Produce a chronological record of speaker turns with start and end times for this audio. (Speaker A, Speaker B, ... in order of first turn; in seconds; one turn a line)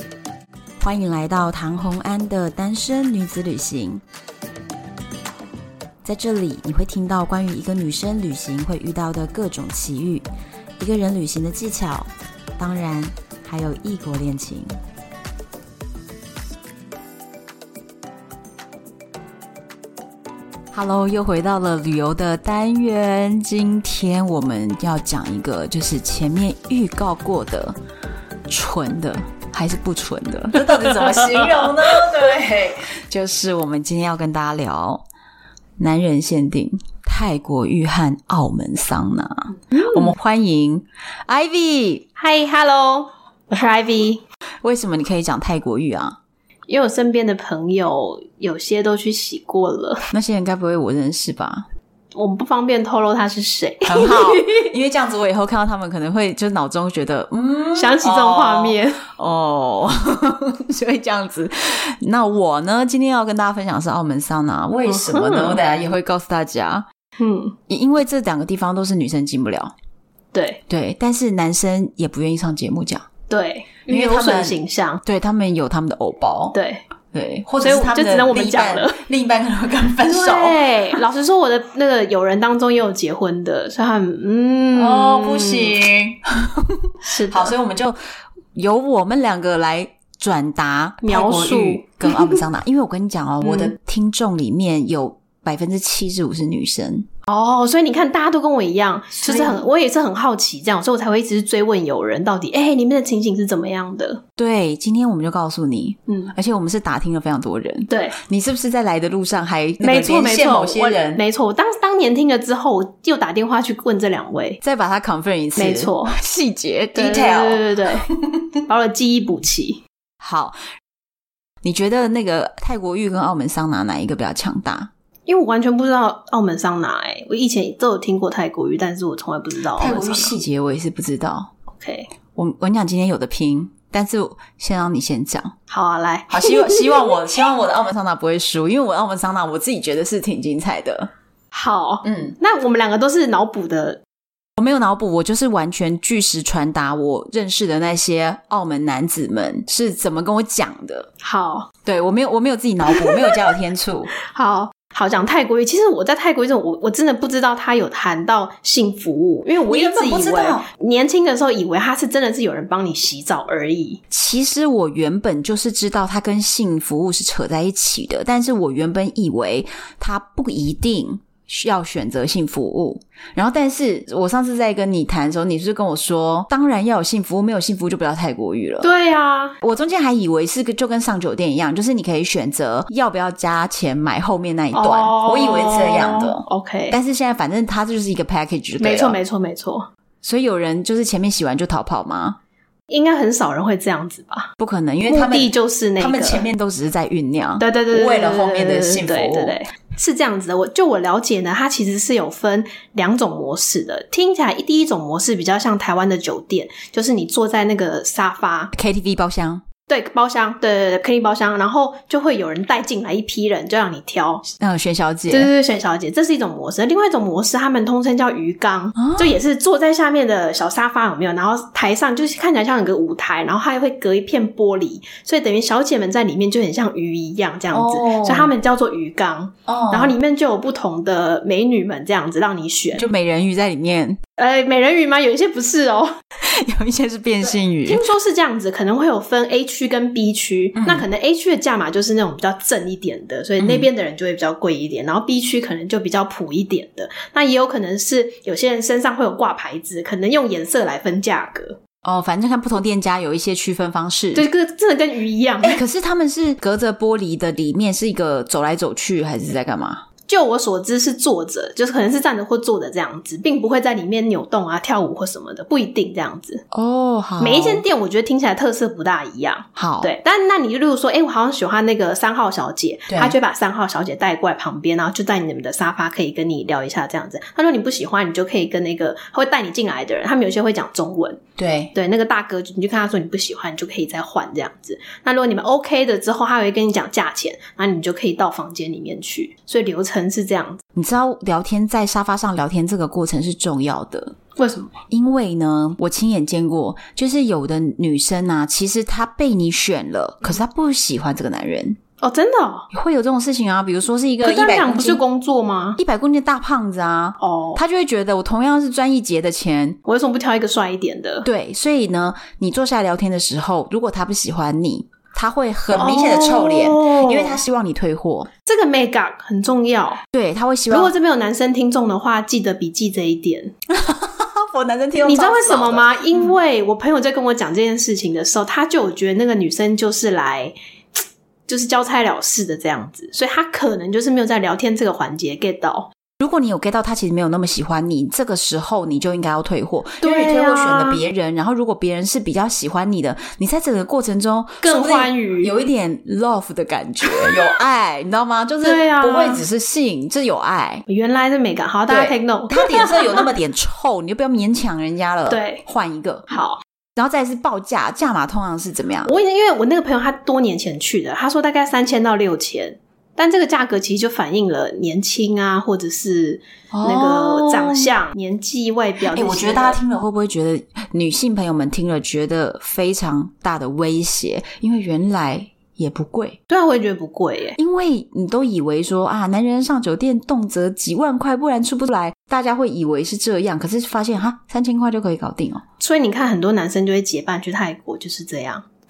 Speaker A: 0.8-4.0
Speaker A: 6.0-10.2
Speaker A: 10.8-14.7
Speaker A: 20.7-27.8
Speaker A: 28.5-35.0
Speaker B: 30.8-31.7
Speaker A: 35.8-42.0
Speaker B: 39.7-40.1
Speaker B: 42.2-44.2
Speaker A: 44.6-46.2
Speaker B: 46.7-50.1
Speaker A: 50.1-51.6
Speaker B: 52.1-54.7
Speaker A: 53.8-66.8
Speaker B: 57.7-59.0
Speaker B: 64.8-65.6
Speaker B: 67.2-67.5
Speaker A: 67.7-69.7
Speaker B: 70.3-70.6
Speaker A: 70.7-73.1
Speaker B: 73.3-75.0
Speaker A: 73.9-76.6
Speaker B: 76.5-76.8
Speaker A: 77.1-80.6
Speaker B: 77.6-79.0
Speaker B: 80.1-85.8
Speaker A: 84.7-88.0
Speaker B: 87.0-87.5
Speaker A: 88.5-97.1
Speaker B: 91.0-92.4
Speaker B: 93.4-93.7
Speaker B: 97.3-104.2
Speaker A: 99.2-99.6
Speaker A: 104.4-111.2
Speaker B: 106.1-106.3
Speaker B: 107.9-108.2
Speaker B: 109.8-114.6
Speaker A: 114.6-118.4
Speaker B: 115.5-116.2
Speaker B: 116.9-118.1
Speaker B: 118.7-119.8
Speaker A: 120.2-120.6
Speaker A: 121.6-124.9
Speaker B: 125.3-130.3
Speaker A: 129.8-131.5
Speaker B: 131.7-132.1
Speaker A: 132.3-135.6
Speaker B: 135.7-136.9
Speaker A: 136.3-141.1
Speaker B: 141.5-144.0
Speaker A: 142.0-142.4
Speaker A: 144.6-151.1
Speaker B: 151.2-151.7
Speaker A: 151.8-154.1
Speaker B: 152.9-153.5
Speaker B: 154.2-164.0
Speaker A: 159.7-160.7
Speaker A: 164.1-178.9
Speaker B: 178.8-179.6
Speaker A: 179.6-189.2
Speaker B: 184.7-186.9
Speaker B: 188.8-189.9
Speaker A: 190.2-192.4
Speaker B: 192.9-194.5
Speaker A: 194.6-199.6
Speaker B: 195.1-196.4
Speaker B: 197.6-208.7
Speaker A: 208.7-209.6
Speaker B: 209.9-214.5
Speaker A: 214.6-215.5
Speaker B: 215.3-233.1
Speaker A: 218.9-219.3
Speaker A: 227.7-228.5
Speaker A: 229.7-230.1
Speaker A: 232.9-234.2
Speaker B: 234.4-236.1
Speaker A: 236.4-238.0
Speaker B: 237.4-251.8
Speaker A: 240.7-241.0
Speaker A: 243.6-243.9
Speaker A: 252.0-254.5
Speaker B: 254.3-255.8
Speaker A: 255.6-260.0
Speaker B: 260.3-266.6
Speaker A: 266.7-267.8
Speaker B: 267.4-281.4
Speaker A: 269.8-270.1
Speaker A: 273.1-273.3
Speaker A: 281.6-281.9
Speaker B: 281.9-290.8
Speaker A: 290.9-294.4
Speaker B: 294.6-294.9
Speaker A: 295.1-302.0
Speaker B: 302.2-302.9
Speaker A: 302.9-305.2
Speaker B: 304.4-306.0
Speaker A: 306.0-310.0
Speaker B: 307.4-307.8
Speaker B: 310.0-311.4
Speaker A: 311.4-318.5
Speaker B: 315.9-317.6
Speaker B: 318.6-320.2
Speaker A: 320.3-321.1
Speaker B: 320.9-323.7
Speaker A: 323.9-326.5
Speaker B: 325.2-330.7
Speaker B: 331.7-336.1
Speaker A: 336.4-351.0
Speaker B: 340.2-341.2
Speaker B: 344.8-345.7
Speaker B: 348.8-349.6
Speaker B: 351.1-353.5
Speaker A: 352.1-356.5
Speaker B: 355.5-355.8
Speaker B: 356.5-356.8
Speaker A: 357.1-359.3
Speaker B: 359.2-370.0
Speaker A: 366.9-368.1
Speaker A: 369.3-376.6
Speaker B: 376.7-377.8
Speaker A: 377.8-385.8
Speaker B: 386.0-388.9